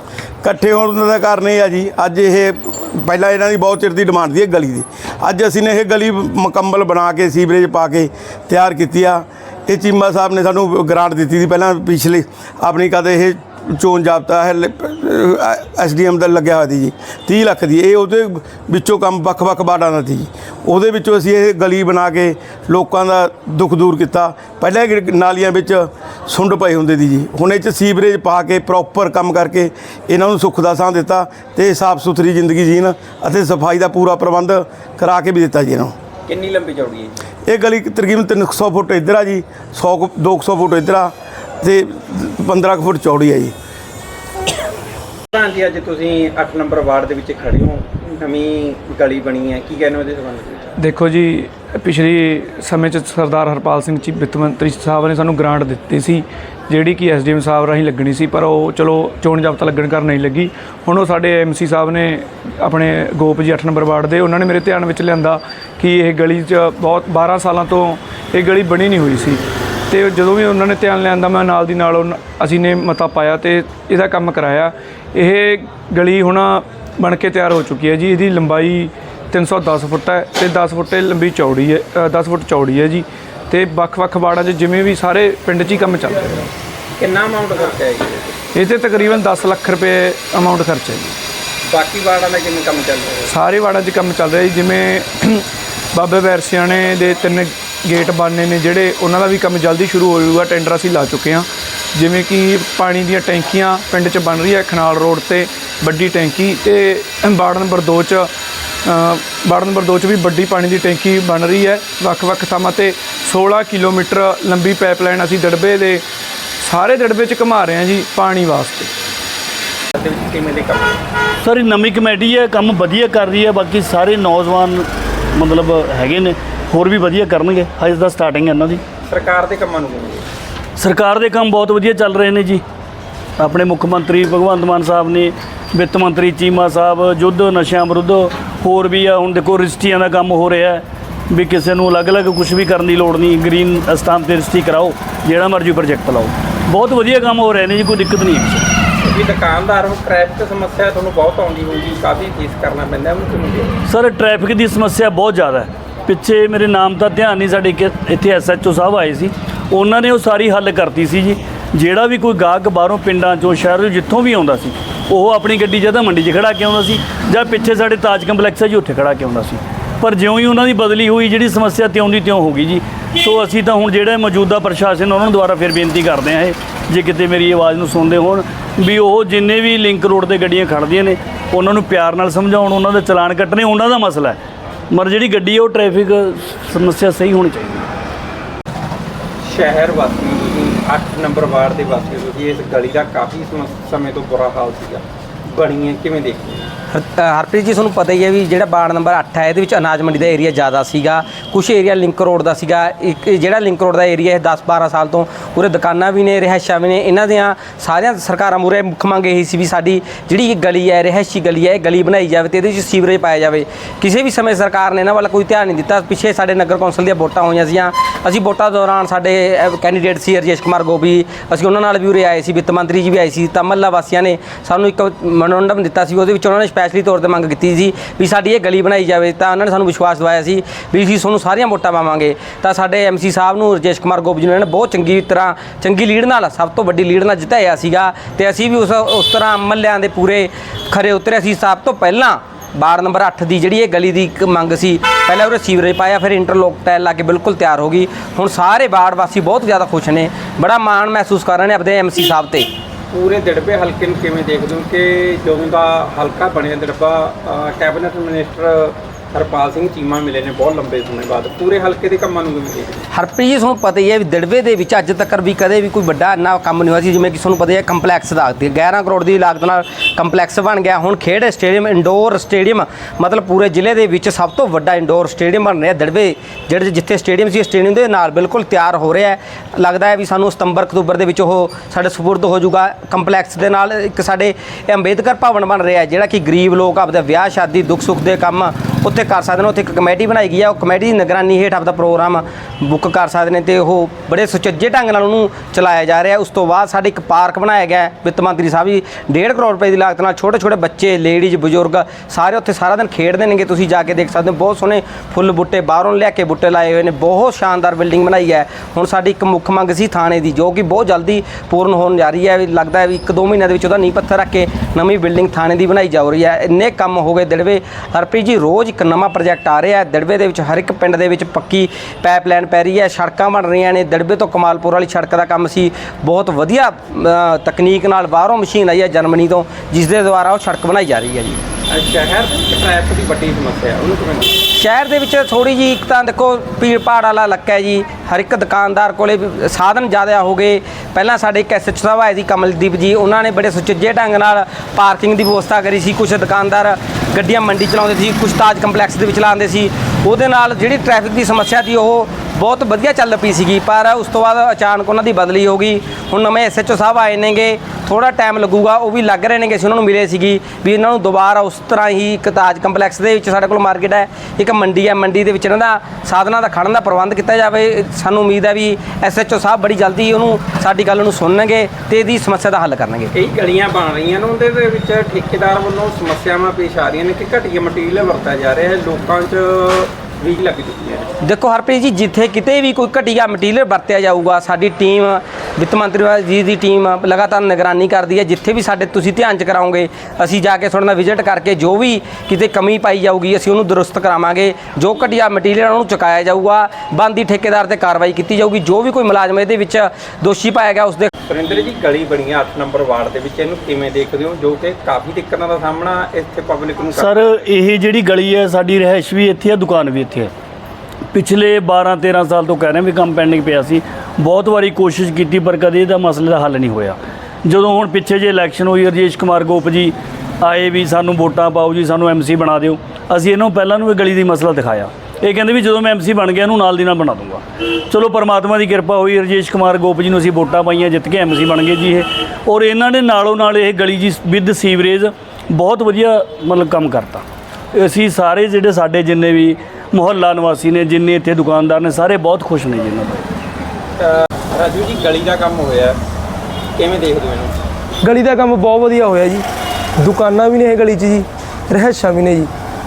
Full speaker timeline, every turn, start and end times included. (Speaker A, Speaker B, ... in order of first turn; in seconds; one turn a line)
Speaker A: 0.4-35.9
Speaker B: 36.3-37.1
Speaker A: 37.5-43.5
Speaker B: 45.3-50.7
Speaker C: 50.8-86.2
Speaker B: 87.0-88.4
Speaker C: 88.5-91.1
Speaker B: 91.7-93.3
Speaker C: 93.3-108.3
Speaker C: 108.8-116.0
Speaker C: 116.6-118.9
Speaker B: 119.9-121.0
Speaker D: 121.4-128.8
Speaker B: 129.1-130.2
Speaker D: 130.8-132.6
Speaker D: 133.4-148.7
Speaker B: 149.0-153.8
Speaker D: 153.9-184.4
Speaker D: 184.9-187.9
Speaker B: 189.4-196.7
Speaker E: 196.9-252.7
Speaker B: 253.1-263.0
Speaker E: 263.1-331.6
Speaker B: 331.9-334.6
Speaker E: 334.7-373.3
Speaker B: 373.3-381.3
Speaker E: 381.4-401.3
Speaker B: 401.5-407.5
Speaker D: 407.1-410.5
Speaker D: 411.3-437.4
Speaker D: 437.9-443.4
Speaker B: 444.2-446.2
Speaker B: 446.9-447.8
Speaker F: 448.2-449.6
Speaker F: 450.2-452.7